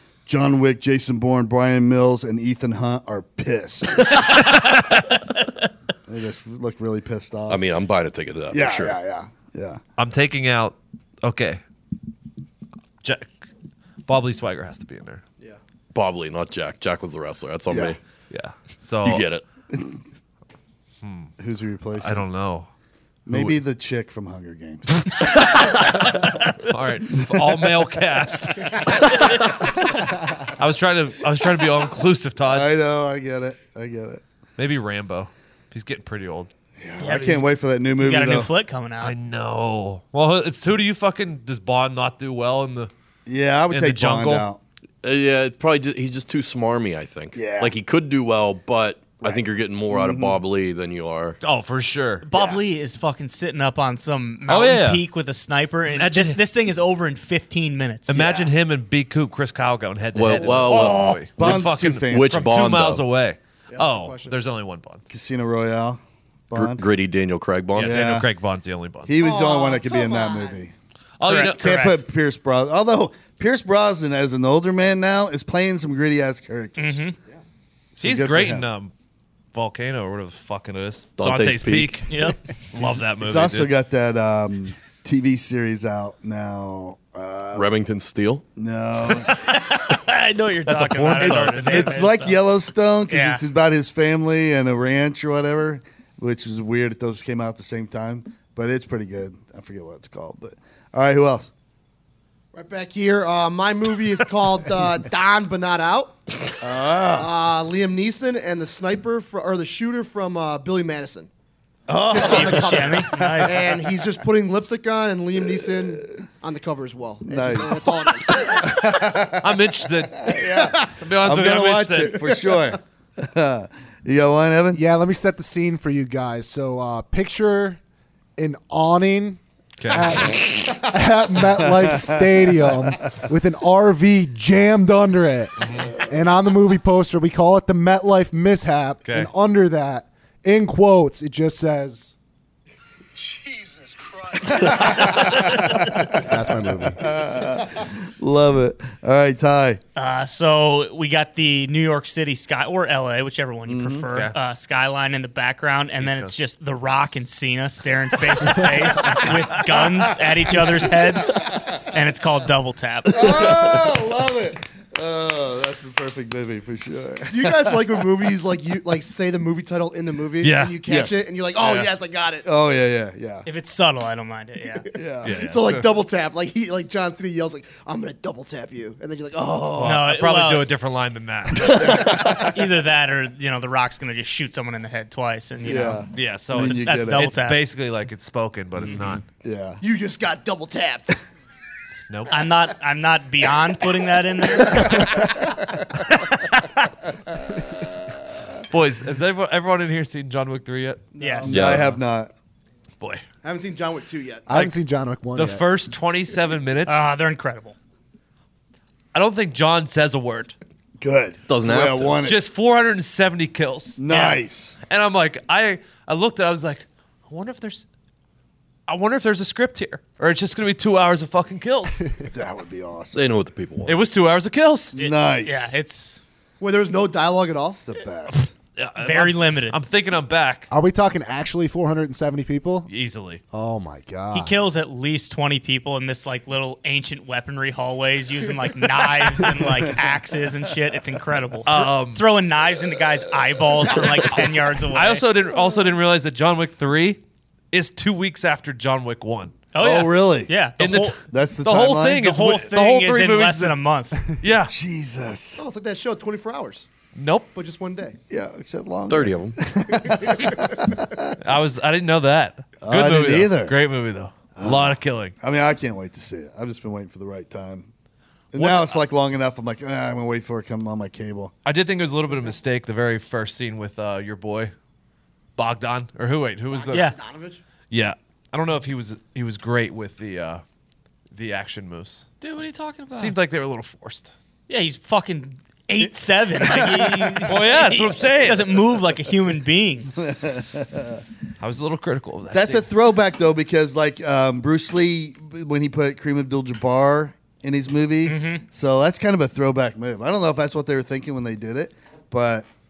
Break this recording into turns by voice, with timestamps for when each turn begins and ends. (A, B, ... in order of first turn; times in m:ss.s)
0:00.3-0:04.3 A
0:06.1-0:07.6 A
0:07.5-0:09.0 B
0:08.5-0:09.8 A
0:10.0-0:11.6 C
0:13.0-0:13.5 C
0:14.1-0:15.2 C
0:15.9-0:18.0 B
0:17.7-0:18.0 A
0:18.3-0:19.3 C
0:19.0-0:19.4 B
0:19.7-0:20.0 A
0:21.0-0:21.3 C
0:21.4-0:22.2 A
0:22.0-0:22.7 C
0:23.3-0:25.1 A
0:23.3-0:23.6 C
0:25.0-0:32.7 C
0:32.4-0:34.2 A
0:34.6-0:36.5 C
0:36.8-0:38.5 A
0:37.0-0:37.5 D
0:38.0-0:39.2 D
0:39.0-0:42.9 C
0:43.3-0:44.6 A
0:43.7-0:44.5 C
0:45.0-0:51.4 B
0:47.4-0:47.7 A
0:49.2-0:50.4 A
0:51.4-0:52.3 C
0:52.2-0:58.2 D
0:52.3-0:52.6 A
0:54.5-0:55.0 C
0:55.9-0:56.4 C
0:58.1-1:05.0 C
0:58.2-0:58.5 A
1:00.1-1:03.0 B
1:00.4-1:01.2 E
1:00.8-1:02.5 A
1:03.7-1:04.4 E
1:05.1-1:06.9 A
1:06.5-1:08.1 B
1:07.7-1:09.1 C
1:07.8-1:08.3 A
1:09.0-1:10.7 A
1:09.2-1:10.6 E
1:11.2-1:11.9 C
1:11.3-1:12.0 D
1:11.4-1:17.0 A
1:16.8-1:17.2 D
1:18.0-1:18.7 A
1:18.0-1:18.9 C
1:19.5-1:23.7 C
1:21.2-1:22.0 B
1:22.1-1:22.4 D
1:22.8-1:27.7 A
1:27.5-1:28.4 B
1:28.6-1:29.3 A
1:29.1-1:32.5 D
1:30.7-1:32.0 C
1:31.2-1:41.5 A
1:33.1-1:33.4 D
1:42.5-1:46.2 E
1:46.6-1:47.3 A
1:47.2-1:51.3 E
1:51.9-1:53.9 A
1:52.1-1:58.7 E
1:52.1-1:53.6 D
1:55.5-1:56.0 A
1:57.2-1:59.7 A
1:59.4-2:00.3 C
2:00.2-2:04.8 A
2:00.3-2:01.0 E
2:01.0-2:02.2 C
2:02.0-2:02.8 E
2:04.7-2:07.8 F
2:08.4-2:22.1 F
2:09.8-2:10.5 C
2:11.6-2:13.0 A
2:15.6-2:16.0 C
2:19.0-2:19.3 C
2:24.5-2:26.4 A
2:26.2-2:27.1 F
2:27.0-2:29.8 A
2:30.0-2:43.9 D
2:33.7-2:34.1 A
2:36.0-2:36.4 C
2:39.2-2:41.8 A
2:43.1-2:48.3 A
2:47.3-2:52.5 E
2:50.4-2:50.8 C
2:50.9-2:51.9 A
2:52.4-2:53.5 A
2:53.5-2:54.9 D
2:54.8-3:00.6 E
2:54.9-2:55.4 A
2:55.2-2:55.9 C
2:59.8-3:02.3 C
2:59.8-3:00.7 D
3:01.7-3:02.5 A
3:01.8-3:07.6 D
3:02.2-3:02.4 E
3:05.6-3:07.4 A
3:06.1-3:09.2 C
3:08.8-3:09.8 A
3:09.8-3:11.2 E
3:12.1-3:12.4 C
3:12.3-3:15.3 D
3:14.6-3:15.3 E
3:18.7-3:21.1 C
3:21.1-3:21.5 E
3:21.2-3:21.5 D
3:21.5-3:22.3 A
3:21.5-3:21.9 B
3:23.4-3:24.5 E
3:24.5-3:25.6 F
3:24.5-3:24.8 C
3:25.4-3:27.1 C
3:26.9-3:27.8 D
3:29.1-3:30.6 C
3:31.0-3:32.4 A
3:31.5-3:32.2 B
3:32.2-3:34.2 C
3:34.0-3:34.8 A
3:34.1-3:34.4 D
3:34.9-3:37.8 C
3:38.9-3:42.0 C
3:42.3-3:43.2 A
3:43.1-3:44.0 B
3:43.9-3:45.0 C
3:45.0-3:45.7 A
3:45.0-3:46.2 D
3:46.6-3:47.8 E
3:47.8-3:48.5 A
3:48.8-3:50.7 C
3:49.0-3:49.8 D
3:50.7-3:52.9 F
3:52.9-3:53.4 C
3:53.5-3:54.6 F
3:54.3-4:05.3 D
4:01.7-4:02.3 C
4:03.9-4:09.6 C
4:09.7-4:11.2 D
4:09.8-4:10.5 A
4:10.8-4:13.8 C
4:11.3-4:12.3 A
4:12.2-4:14.2 D
4:14.4-4:14.7 C
4:14.7-4:15.6 A
4:15.6-4:16.9 E
4:17.2-4:17.5 C
4:17.6-4:18.2 E
4:18.3-4:21.4 A
4:19.1-4:19.6 B
4:19.9-4:20.6 E
4:21.4-4:25.3 C
4:22.8-4:23.8 A
4:24.6-4:27.9 A
4:28.5-4:31.5 A
4:28.6-4:29.0 C
4:31.6-4:34.7 C
4:35.6-4:37.1 C
4:36.7-4:37.6 E
4:36.9-4:37.2 D
4:37.9-4:40.6 C
4:41.3-4:42.3 C
4:42.4-4:43.4 D
4:43.1-4:44.3 C
4:44.7-4:50.1 D
4:46.0-4:47.6 A
4:47.5-4:48.8 C
4:50.2-4:51.2 A
4:51.6-4:52.9 C
4:52.5-5:02.7 A
4:58.2-4:58.6 D